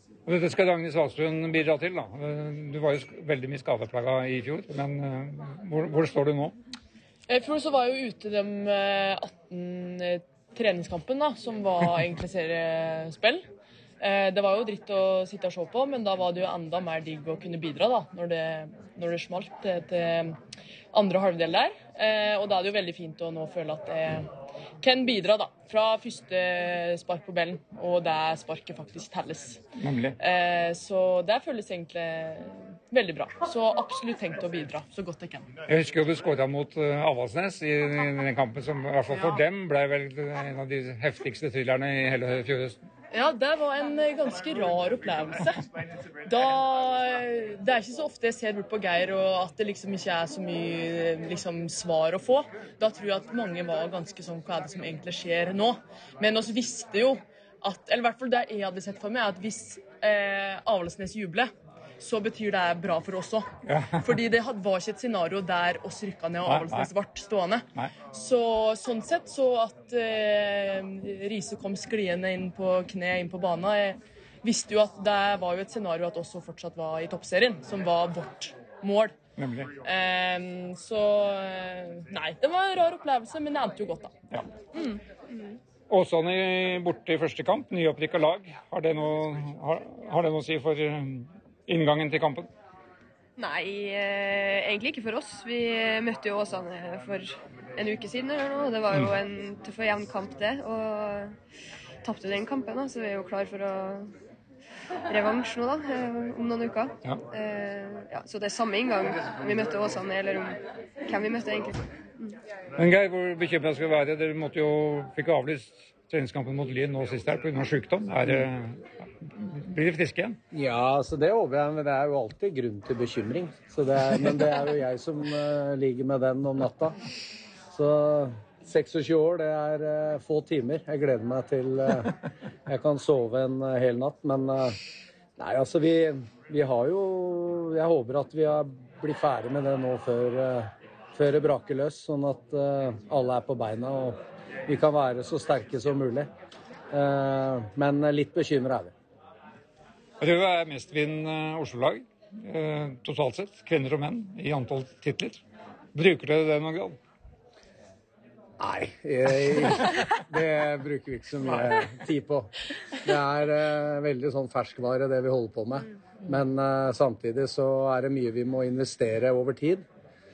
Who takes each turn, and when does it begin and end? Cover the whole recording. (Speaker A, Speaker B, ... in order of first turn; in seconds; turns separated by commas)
Speaker A: 0.3-6.5, Speaker B: 7.3-13.4, Speaker B: 14.0-20.4, Speaker B: 20.9-24.3, Speaker B: 24.8-29.6, Speaker A: 29.8-30.1, Speaker B: 30.2-35.5, Speaker A: 35.7-42.8, Speaker B: 39.1-39.4, Speaker B: 43.1-45.6, Speaker B: 46.2-79.2, Speaker A: 63.6-64.1, Speaker A: 66.5-66.9, Speaker A: 79.4-79.7, Speaker B: 79.8-84.1, Speaker B: 84.7-85.0, Speaker C: 85.3-85.5, Speaker A: 85.9-92.5, Speaker C: 93.4-101.4, Speaker C: 102.0-104.1, Speaker C: 105.1-112.4, Speaker A: 112.8-118.8, Speaker A: 119.3-120.4, Speaker D: 120.5-127.0, Speaker D: 127.7-134.8, Speaker D: 135.4-146.3, Speaker D: 146.9-148.9, Speaker A: 150.2-155.4, Speaker A: 155.9-157.0, Speaker D: 158.6-162.5, Speaker D: 163.0-169.8